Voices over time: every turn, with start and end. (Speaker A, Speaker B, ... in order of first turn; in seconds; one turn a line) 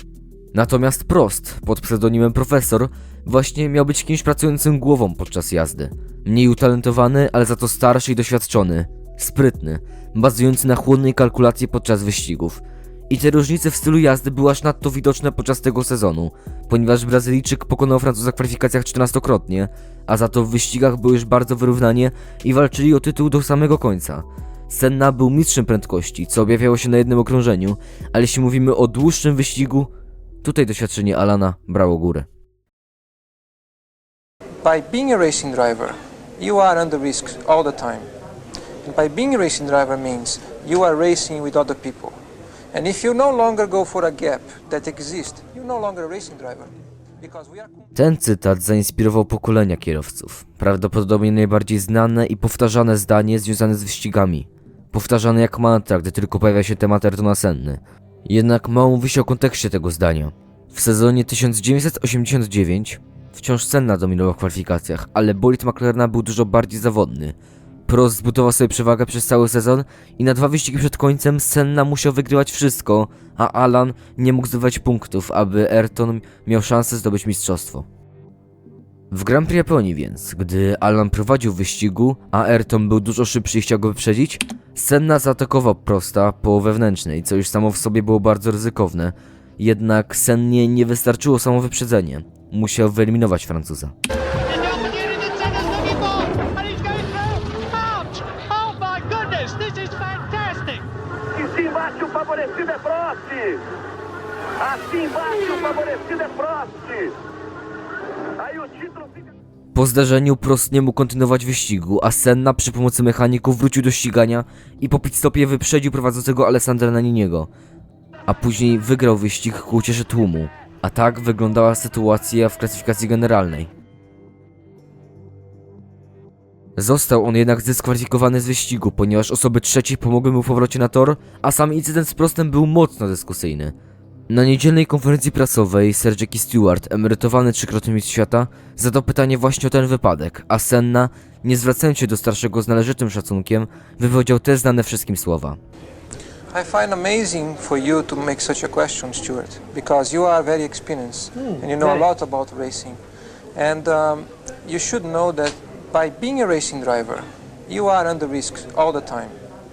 Speaker A: 0.5-29.9
Speaker A: 30.4-32.3
Speaker B: 34.6-38.1
Speaker B: 38.8-42.1
Speaker B: 42.7-46.7
Speaker B: 47.2-47.9
Speaker A: 48.0-77.9
Speaker A: 79.1-93.9
Speaker C: 94.5-100.9
Speaker D: 101.3-103.7
Speaker D: 104.6-107.2
Speaker D: 108.4-109.2
Speaker A: 109.7-117.5
Speaker A: 118.3-123.7
Speaker A: 126.8-133.8
Speaker A: 134.3-145.6
Speaker B: 146.5-153.0
Speaker B: 153.6-159.3